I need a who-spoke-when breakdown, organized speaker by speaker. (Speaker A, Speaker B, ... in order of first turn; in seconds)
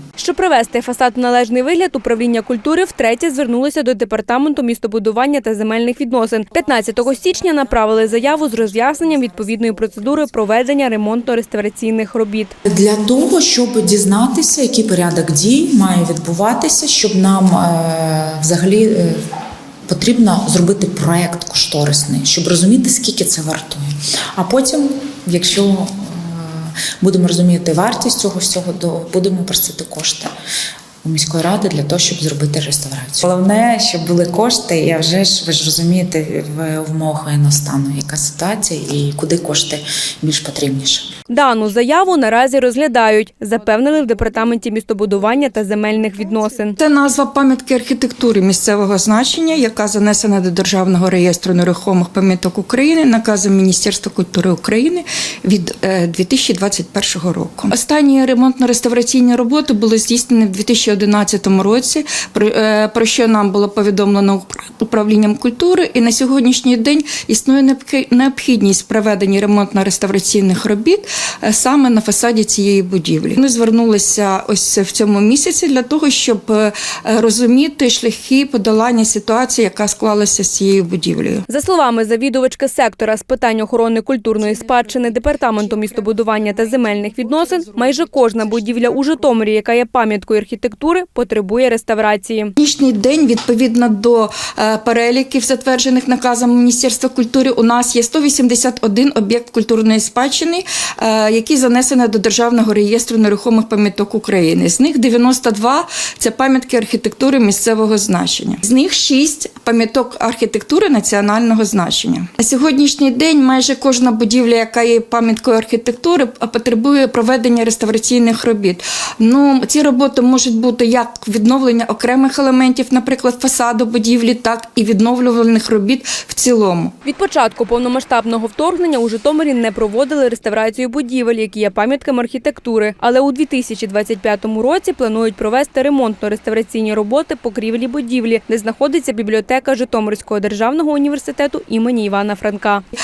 Speaker A: 0.2-12.5, 41.3-46.8, 81.5-92.5, 127.0-142.8
Speaker B: 6.5-11.1, 43.9-81.5, 84.4-89.4, 92.6-126.9
Speaker C: 12.7-19.2, 19.9-30.3, 31.0-41.1